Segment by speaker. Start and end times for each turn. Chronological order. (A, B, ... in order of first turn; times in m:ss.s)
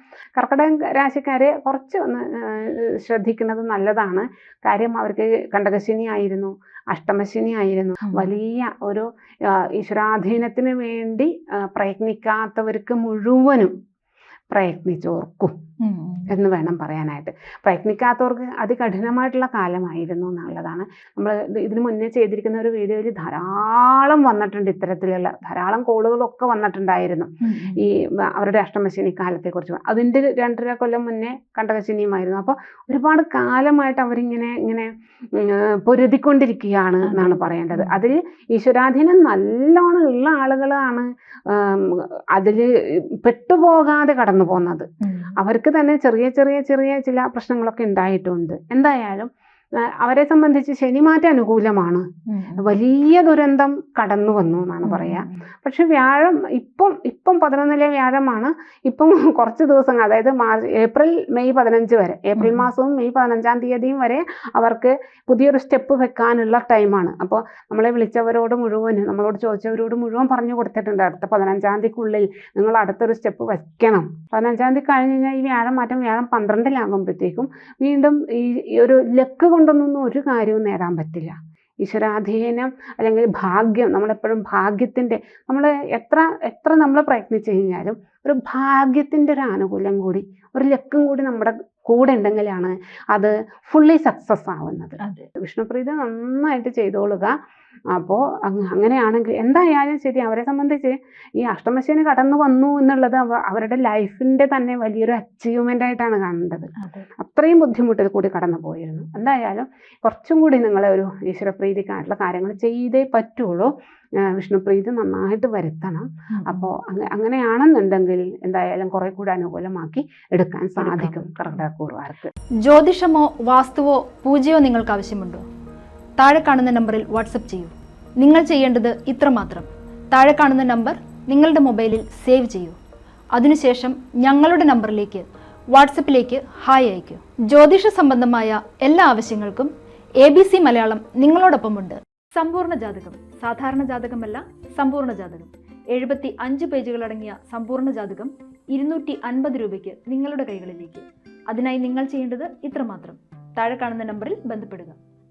0:00.4-0:13.7 A
0:08.0-0:08.3 B
0:14.5-0:15.6 A
0:15.8-0:16.3 B
0:16.3-0:42.7 A
0:27.4-0:27.8 B
0:37.0-0:38.0 B
0:43.2-0:44.9 A
0:45.0-0:45.3 B
0:45.4-0:49.3 A
0:49.8-0:52.1 A
0:52.3-0:52.7 B
0:52.6-1:37.3 A
0:54.8-0:55.3 B
1:02.4-1:02.7 B
1:37.9-1:53.7 A
1:46.8-1:47.1 B
1:54.3-2:02.3 A
1:56.4-1:56.7 B
2:00.8-2:01.4 B
2:02.6-2:05.4 B
2:06.2-2:12.8 B
2:13.4-2:35.0 B